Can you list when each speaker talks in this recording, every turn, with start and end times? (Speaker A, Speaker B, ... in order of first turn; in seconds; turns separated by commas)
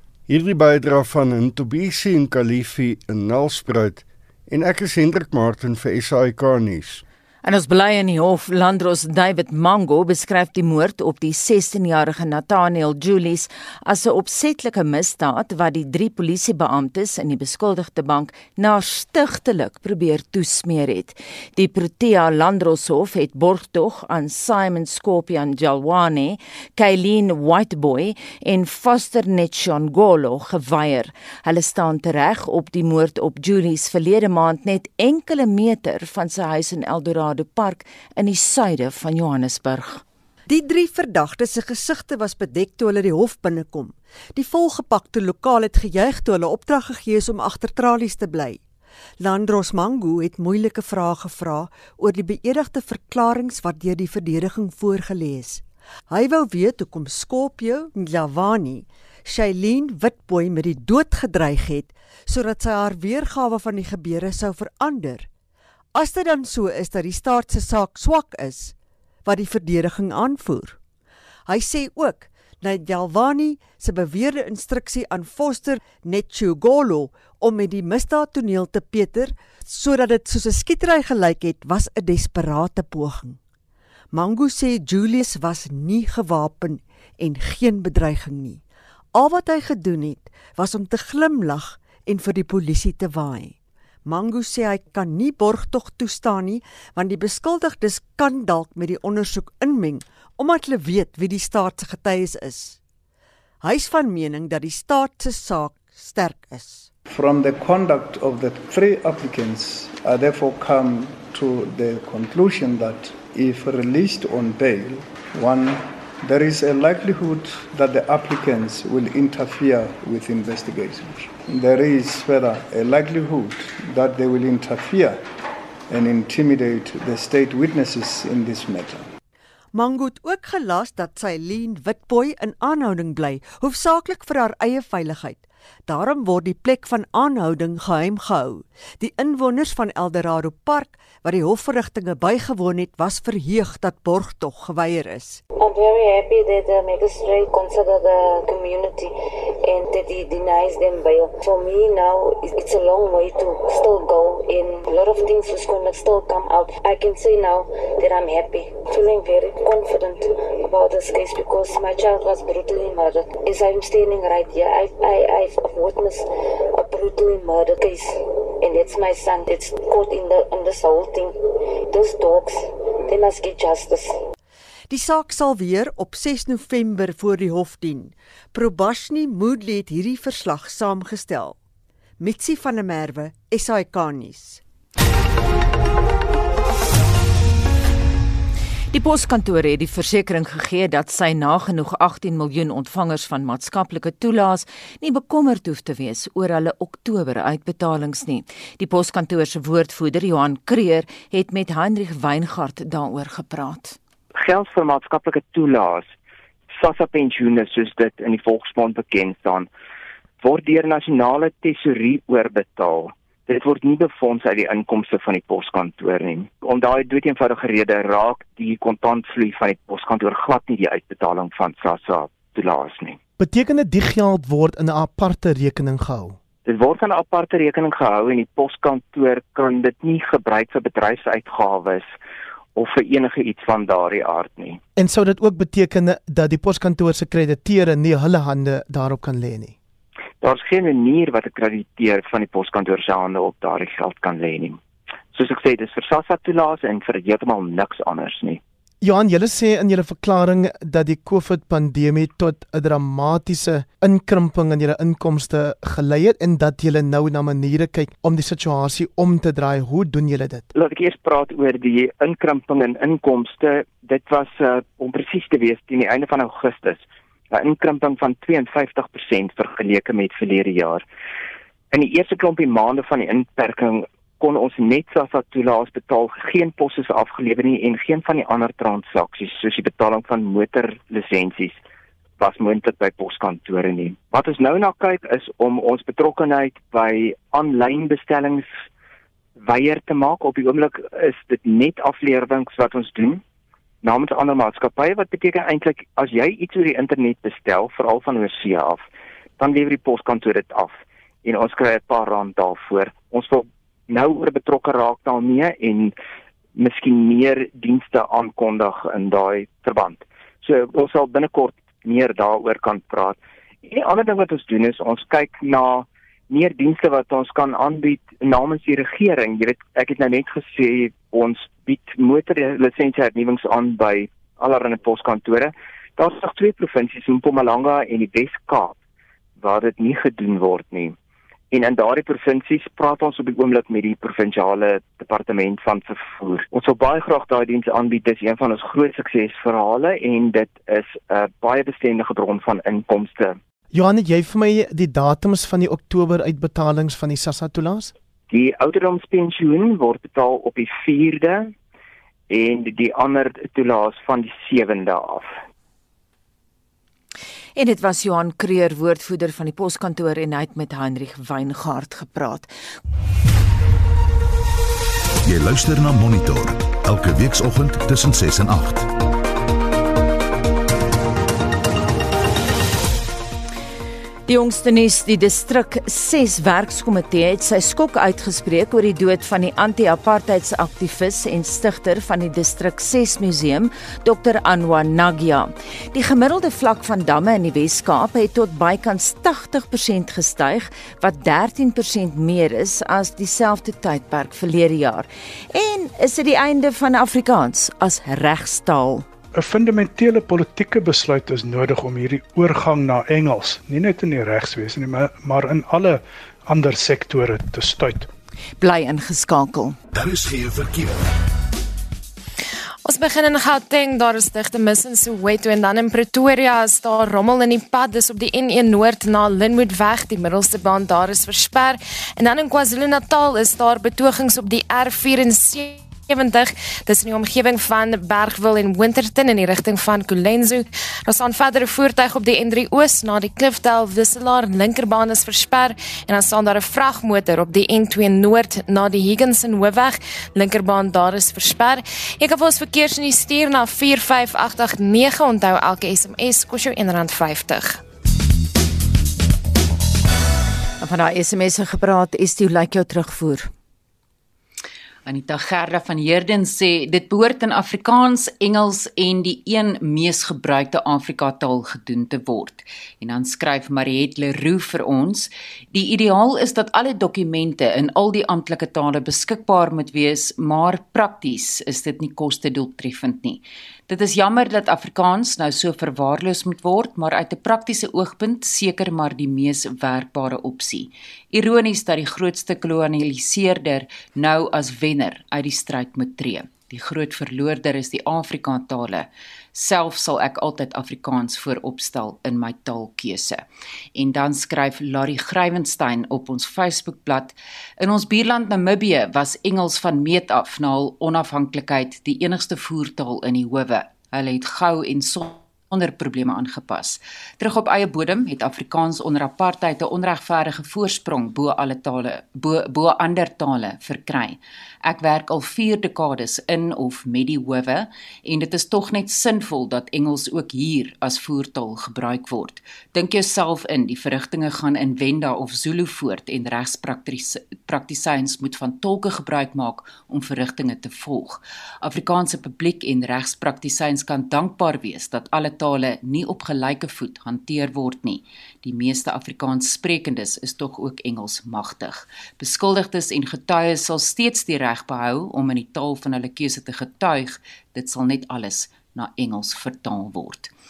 Speaker A: 0.3-7.0, Speaker B: 7.4-40.0, Speaker C: 40.5-48.6, Speaker C: 49.2-65.3, Speaker C: 65.9-70.8, Speaker C: 71.5-83.4, Speaker C: 84.1-88.6, Speaker C: 89.1-102.8, Speaker C: 103.6-106.9, Speaker D: 107.0-125.2, Speaker D: 125.9-129.1, Speaker C: 129.7-145.4, Speaker E: 145.6-149.1, Speaker E: 149.6-171.4, Speaker E: 171.9-174.1, Speaker C: 174.9-181.6, Speaker C: 182.2-184.6, Speaker B: 188.9-204.0, Speaker F: 204.3-206.1, Speaker F: 206.7-209.7, Speaker F: 210.4-223.2, Speaker G: 223.4-226.4, Speaker F: 226.7-232.1, Speaker F: 232.8-234.8, Speaker G: 235.0-239.7, Speaker F: 240.4-244.8, Speaker F: 245.3-248.6, Speaker G: 249.0-260.6, Speaker F: 260.7-271.0, Speaker F: 271.9-281.8, Speaker F: 282.4-288.7, Speaker F: 289.6-293.4, Speaker F: 294.0-299.0, Speaker F: 299.6-306.1, Speaker F: 306.8-329.0, Speaker F: 329.6-331.1, Speaker F: 331.7-343.6, Speaker G: 343.9-348.1, Speaker F: 348.5-351.7, Speaker F: 352.5-355.6, Speaker B: 357.8-362.7, Speaker H: 365.4-369.1, Speaker B: 374.5-399.3, Speaker I: 399.5-408.3, Speaker B: 408.8-410.0, Speaker H: 410.1-411.3, Speaker J: 413.0-448.0, Speaker B: 451.0-453.7, Speaker K: 455.2-493.6, Speaker K: 494.1-550.7